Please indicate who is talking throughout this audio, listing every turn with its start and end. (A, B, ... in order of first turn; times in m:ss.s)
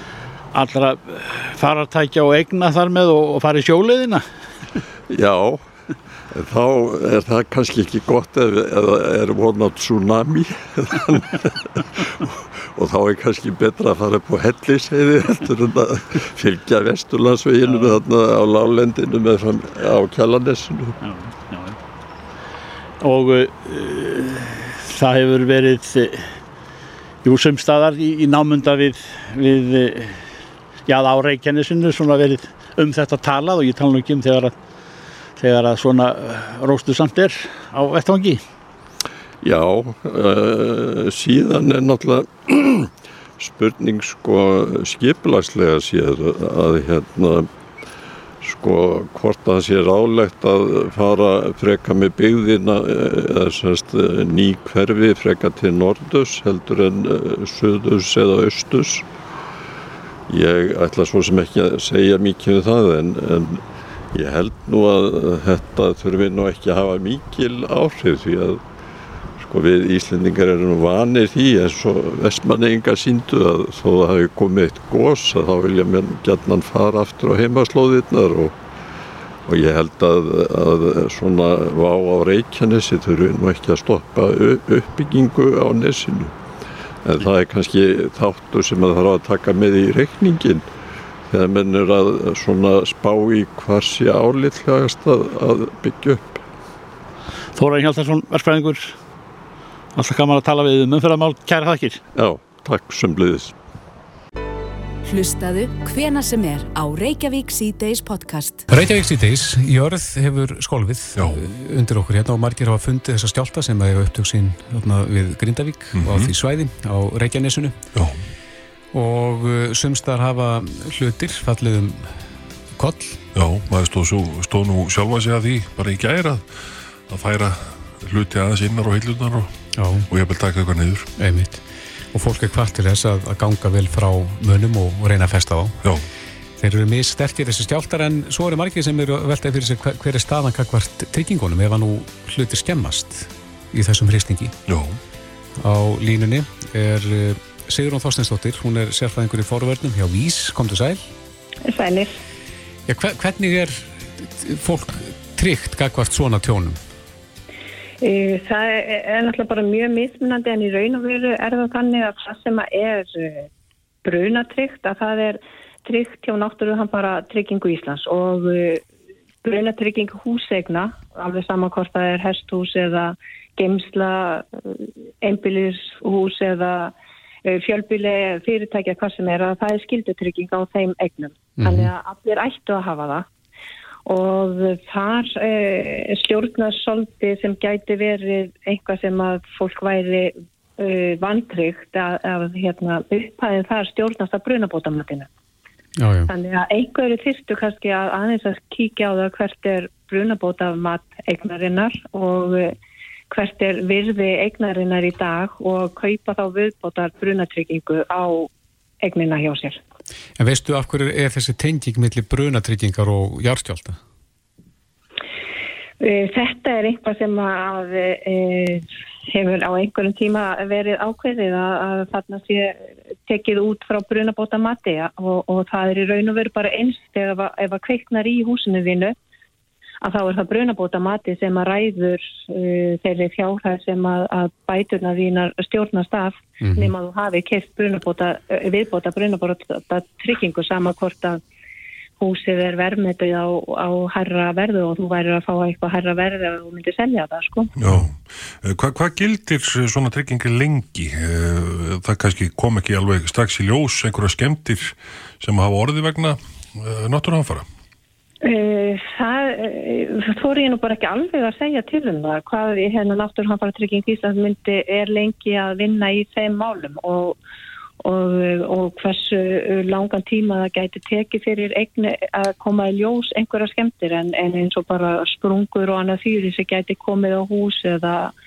0:00.5-0:04.2 A
0:05.1-0:05.7 B
0:06.3-0:21.0 B
0:17.6-0:18.0 A
0:21.0-0:21.8 A
0:23.0-0:26.3 A
0:27.2-0:30.2 A
0:30.9-0:34.6 A
0:35.4-0:38.4 A
0:39.4-0:47.5 B
0:48.4-0:59.1 B
1:00.3-1:08.6 B
1:09.4-1:18.6 B
1:19.5-1:26.4 B
1:27.0-1:30.6 B
1:31.3-1:36.4 B
1:37.6-1:38.9 A
1:40.0-1:42.0 A
1:42.1-1:43.5 B
1:45.0-1:48.7 C
1:48.7-1:57.8 D
1:51.2-1:51.4 E
1:56.0-1:56.3 E
1:58.0-1:58.2 E
1:58.9-2:02.2 D
2:02.8-2:03.2 D
2:03.4-2:09.5 E
2:09.8-2:10.1 D
2:10.1-2:11.1 E
2:11.2-2:15.8 D
2:16.6-2:24.6 D
2:24.7-2:25.0 E
2:25.6-2:31.1 D
2:31.6-2:32.2 F
2:32.9-2:36.8 D
2:38.0-2:43.5 F
2:44.0-2:48.8 F
2:49.4-2:56.9 F
2:57.4-3:03.3 F
3:01.6-3:01.9 D
3:04.1-3:15.3 F
3:16.0-3:16.3 D
3:16.3-3:22.8 F
3:23.3-3:28.5 F
3:29.0-3:29.8 F
3:30.4-3:34.0 D
3:36.0-3:49.2 F
3:50.0-4:01.4 F
3:56.6-3:56.9 D
4:02.2-4:07.7 F
4:07.8-4:17.7 E
4:18.4-4:27.4 F
4:28.0-4:38.3 F